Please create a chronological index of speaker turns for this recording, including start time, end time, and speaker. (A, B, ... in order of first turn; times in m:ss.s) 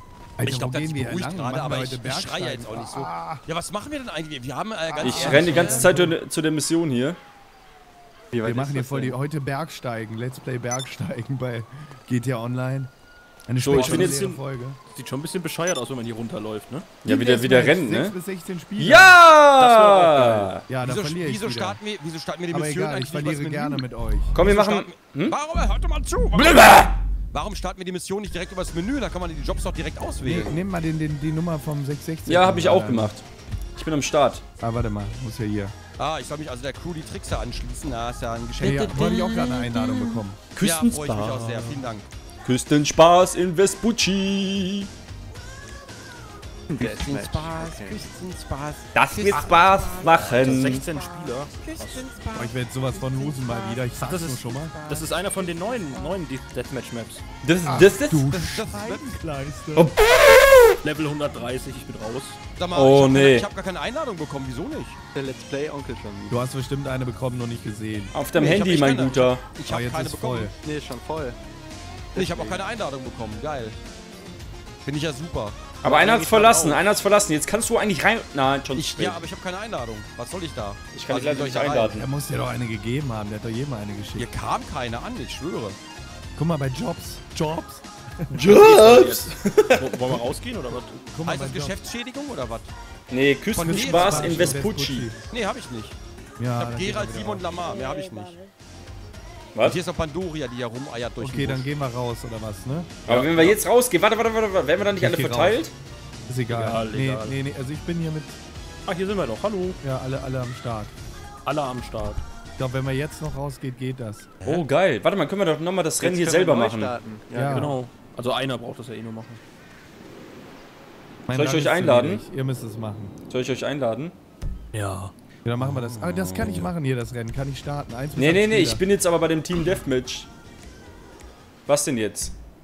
0:00.4-0:03.4 A
0:00.4-0:05.9 B
0:04.9-0:06.2 A
0:05.0-0:07.2 C
0:08.3-0:09.2 D
0:08.4-0:12.9 A
0:13.5-0:14.8 A
0:13.6-0:14.2 C
0:13.7-0:16.9 E
0:17.0-0:18.1 C
0:17.0-0:19.2 A
0:18.8-0:20.6 C
0:19.5-0:20.6 E
0:20.7-0:21.8 A
0:20.8-0:30.6 B
0:22.5-0:24.4 A
0:24.3-0:25.4 C
0:26.3-0:26.9 C
0:30.2-0:33.1 A
0:32.3-0:33.2 C
0:33.8-0:34.4 C
0:34.6-0:35.8 A
0:36.0-0:39.2 B
0:38.6-0:40.4 A
0:38.6-0:41.4 C
0:40.6-0:42.1 B
0:41.3-0:41.8 A
0:42.4-0:44.9 C
0:46.7-0:48.1 D
0:46.7-0:52.5 B
0:48.9-0:50.8 C
0:50.1-0:52.0 E
0:52.3-0:54.8 A
0:53.1-0:53.7 B
0:54.0-0:57.2 E
0:54.7-0:55.1 B
0:57.4-0:58.3 C
0:57.6-0:59.9 A
0:58.3-0:59.2 B
0:59.8-1:00.8 C
1:00.8-1:02.4 E
1:02.6-1:05.0 B
1:02.7-1:03.5 C
1:05.1-1:06.4 D
1:06.3-1:08.1 A
1:08.1-1:09.4 C
1:08.4-1:10.5 B
1:09.6-1:10.5 A
1:10.6-1:11.4 D
1:12.1-1:12.6 D
1:12.1-1:13.8 B
1:14.8-1:15.6 B
1:15.8-1:19.2 C
1:15.8-1:16.2 E
1:16.3-1:16.6 B
1:18.8-1:22.0 B
1:20.9-1:22.0 C
1:21.9-1:24.3 A
1:24.2-1:25.8 B
1:26.4-1:28.3 A
1:28.3-1:29.9 C
1:28.4-1:31.0 E
1:31.0-1:31.8 A
1:31.2-1:32.7 B
1:33.1-1:35.1 C
1:33.5-1:34.6 B
1:33.6-1:35.2 A
1:35.3-1:36.0 B
1:36.4-1:37.5 A
1:36.6-1:38.4 B
1:39.6-1:41.7 B
1:41.2-1:43.0 A
1:43.1-1:45.7 C
1:43.1-1:43.6 E
1:45.0-1:45.7 A
1:46.3-1:48.4 A
1:46.5-1:47.4 E
1:48.8-1:49.8 E
1:49.8-1:50.9 A
1:51.4-1:52.2 E
1:52.6-1:54.3 A
1:54.4-1:54.7 B
1:54.4-1:56.9 C
1:56.0-1:57.8 D
1:57.3-1:57.8 A
1:57.4-1:59.4 E
2:01.3-2:03.1 A
2:01.3-2:02.2 C
2:03.3-2:04.1 C
2:04.7-2:05.1 E
2:05.4-2:08.8 A
2:05.6-2:06.7 C
2:08.2-2:10.3 C
2:11.7-2:12.3 C